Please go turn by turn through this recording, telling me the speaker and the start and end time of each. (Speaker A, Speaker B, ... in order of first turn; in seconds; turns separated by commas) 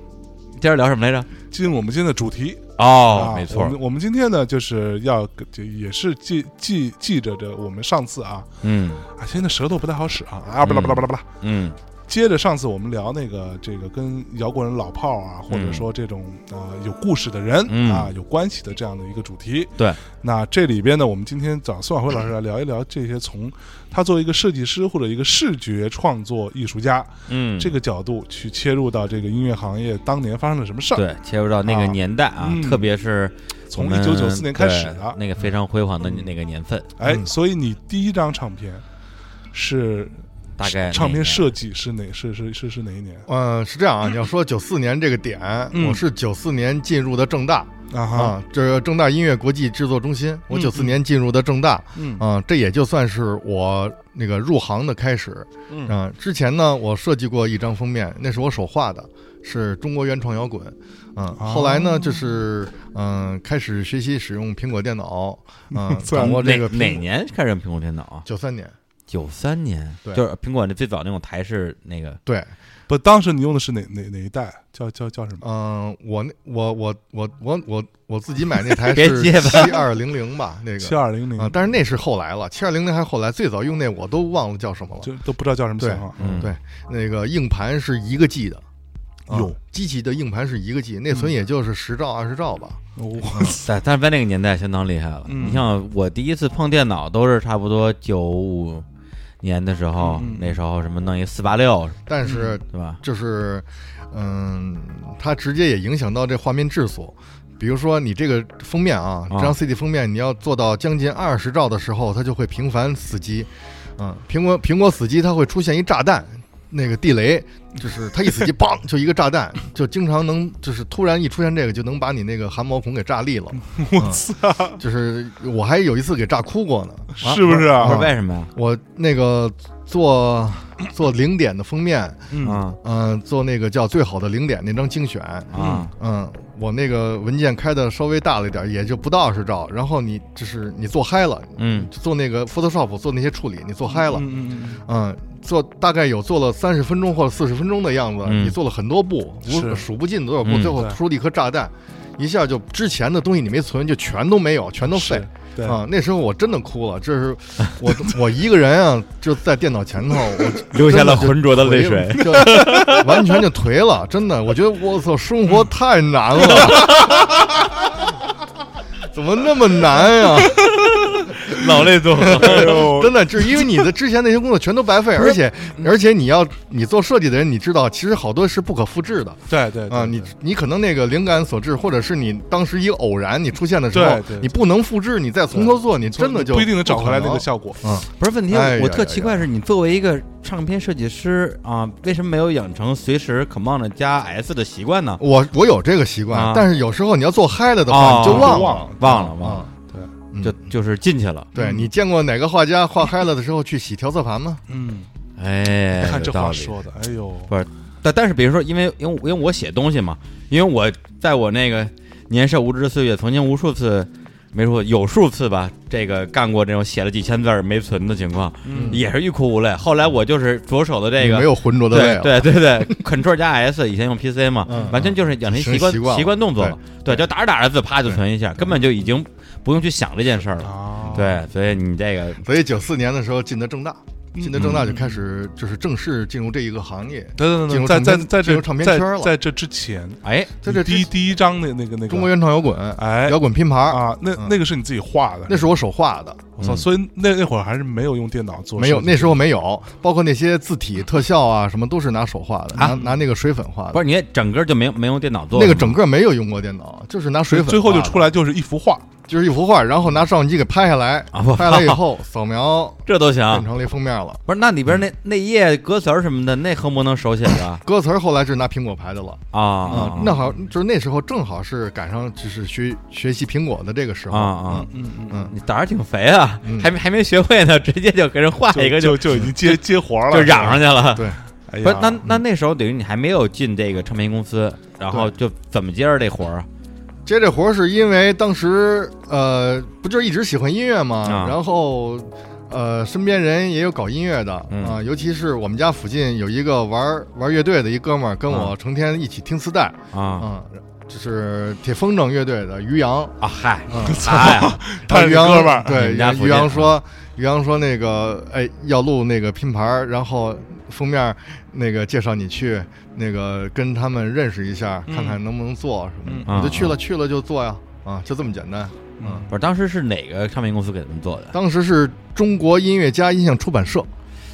Speaker A: 0.6-1.3, Speaker B: 1.5-8.5, Speaker A: 2.8-3.8, Speaker A: 8.6-9.0, Speaker B: 9.2-11.3, Speaker A: 10.6-11.8, Speaker B: 12.1-31.1, Speaker A: 15.5-15.9, Speaker A: 17.7-18.1, Speaker A: 27.3-27.7, Speaker A: 30.9-36.9, Speaker B: 31.6-32.9, Speaker B: 33.7-35.2, Speaker B: 36.0-36.3, Speaker B: 37.0-38.8, Speaker C: 37.0-37.3, Speaker B: 39.5-43.2, Speaker A: 40.6-41.5, Speaker C: 43.3-67.0, Speaker B: 45.7-46.0, Speaker B: 47.9-48.4, Speaker B: 50.5-51.0, Speaker B: 52.0-52.2, Speaker B: 55.7-56.0, Speaker B: 61.4-62.2, Speaker B: 65.7-66.6, Speaker A: 66.2-68.2, Speaker C: 68.3-68.8, Speaker A: 69.1-72.2, Speaker C: 72.3-72.5, Speaker B: 72.9-75.4, Speaker C: 75.4-85.1, Speaker A: 78.8-79.8, Speaker B: 80.8-81.5, Speaker B: 85.0-86.5, Speaker C: 85.8-88.6, Speaker A: 86.2-86.5, Speaker C: 89.3-92.8, Speaker B: 89.3-89.6, Speaker B: 93.0-93.7, Speaker C: 93.3-93.6, Speaker A: 93.7-98.8, Speaker B: 95.3-95.7, Speaker A: 99.4-102.0, Speaker B: 100.0-100.6, Speaker C: 102.1-124.2, Speaker B: 102.2-102.5, Speaker A: 102.7-103.0, Speaker B: 123.7-124.8, Speaker C: 124.8-132.3, Speaker B: 127.2-128.1, Speaker A: 127.8-128.5, Speaker B: 132.3-132.6, Speaker A: 132.4-132.8, Speaker C: 132.8-144.3, Speaker A: 135.5-135.9, Speaker B: 135.6-135.9, Speaker A: 141.6-141.9, Speaker B: 143.9-144.8, Speaker C: 144.9-167.2, Speaker A: 148.2-148.6, Speaker B: 149.5-149.8, Speaker A: 150.5-150.7, Speaker B: 150.6-151.0, Speaker B: 154.9-155.8, Speaker A: 160.7-163.1, Speaker B: 162.2-163.0, Speaker A: 166.7-167.2, Speaker B: 166.8-167.4, Speaker C: 169.1-170.6, Speaker A: 170.9-172.8, Speaker C: 172.2-189.4, Speaker B: 172.3-173.7, Speaker B: 179.5-180.3, Speaker B: 183.9-184.5, Speaker B: 185.5-187.8, Speaker A: 188.2-195.2, Speaker C: 195.2-199.7, Speaker A: 196.3-196.7, Speaker A: 197.9-199.6, Speaker B: 198.2-199.3, Speaker C: 200.3-200.6, Speaker A: 200.4-201.5, Speaker C: 201.6-204.6, Speaker B: 201.6-201.9, Speaker B: 204.7-205.1, Speaker A: 205.4-206.8, Speaker B: 206.0-207.5, Speaker A: 207.5-232.4, Speaker B: 218.7-219.0, Speaker C: 218.7-219.0, Speaker C: 221.2-223.0, Speaker C: 224.7-227.2, Speaker B: 230.6-231.4, Speaker C: 232.4-239.3, Speaker B: 234.4-235.2, Speaker B: 237.4-242.3, Speaker A: 240.2-240.5, Speaker C: 240.6-241.1, Speaker C: 242.1-244.5, Speaker B: 243.0-245.7, Speaker C: 245.5-246.5, Speaker B: 246.6-249.5, Speaker A: 246.6-246.8, Speaker C: 248.8-254.0, Speaker B: 252.8-253.1, Speaker A: 253.9-256.0, Speaker C: 255.5-258.3, Speaker B: 257.5-259.1, Speaker C: 259.3-264.4, Speaker A: 261.3-262.0, Speaker A: 263.1-263.7, Speaker A: 264.5-267.8, Speaker C: 267.8-275.5, Speaker A: 269.5-270.3, Speaker B: 269.8-270.6, Speaker A: 274.3-274.9, Speaker B: 274.8-275.5, Speaker A: 275.5-279.8, Speaker C: 276.6-276.9, Speaker B: 278.7-280.8, Speaker A: 280.3-281.2, Speaker C: 280.5-281.4, Speaker B: 281.7-282.2, Speaker A: 281.8-286.7, Speaker C: 287.3-303.4, Speaker A: 291.3-291.6, Speaker A: 294.7-295.0, Speaker A: 300.1-300.5, Speaker A: 303.4-304.8, Speaker C: 303.9-319.5, Speaker B: 303.9-306.0, Speaker A: 305.9-306.9, Speaker B: 315.1-315.4, Speaker B: 316.2-316.9, Speaker A: 316.5-316.9, Speaker B: 319.2-319.5, Speaker A: 319.5-321.6, Speaker C: 321.5-324.1